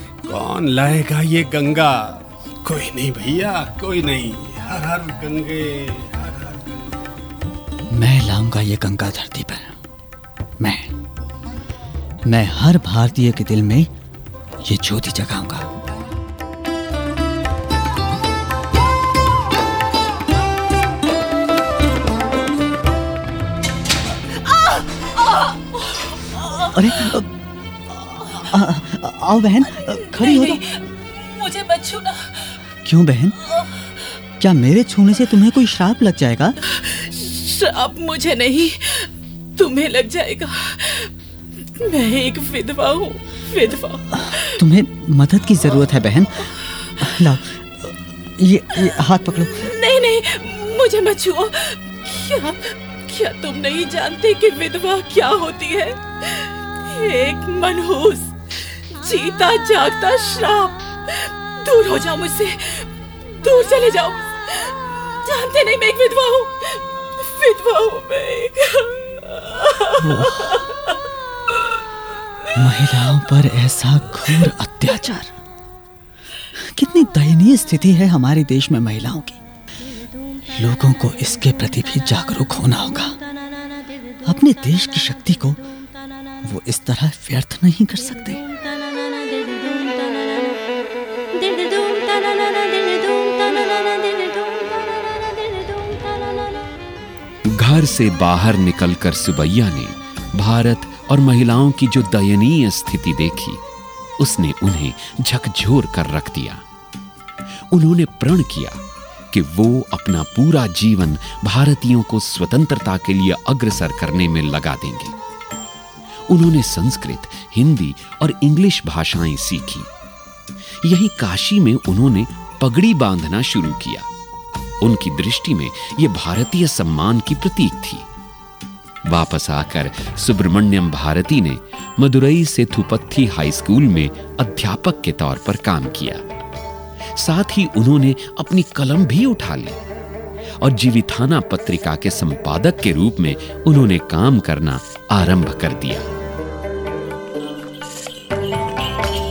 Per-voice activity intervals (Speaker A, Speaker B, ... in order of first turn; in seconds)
Speaker A: 0.3-6.8
Speaker B: 7.9-9.8, 10.6-10.9, 12.3-13.9, 14.6-15.7, 26.6-27.3, 27.9-30.6, 32.8-33.4, 34.4-36.6, 44.1-49.7, 70.0-70.6, 72.5-75.3, 76.5-79.4, 80.5-83.2, 84.2-85.6, 86.4-88.4
Speaker C: 24.7-25.6, 30.0-32.2, 36.9-38.7, 39.6-40.7, 41.9-44.0, 49.7-52.6, 53.1-56.0, 56.9-58.3, 59.0-60.7, 61.7-62.6, 63.4-64.3, 65.2-66.5, 67.4-68.8, 69.9-70.2
Speaker D: 97.5-103.6, 104.2-106.6, 107.7-108.8, 109.3-115.1, 116.3-119.9, 120.8-124.1, 124.8-128.1, 129.1-136.2, 137.2-139.8, 140.6-146.1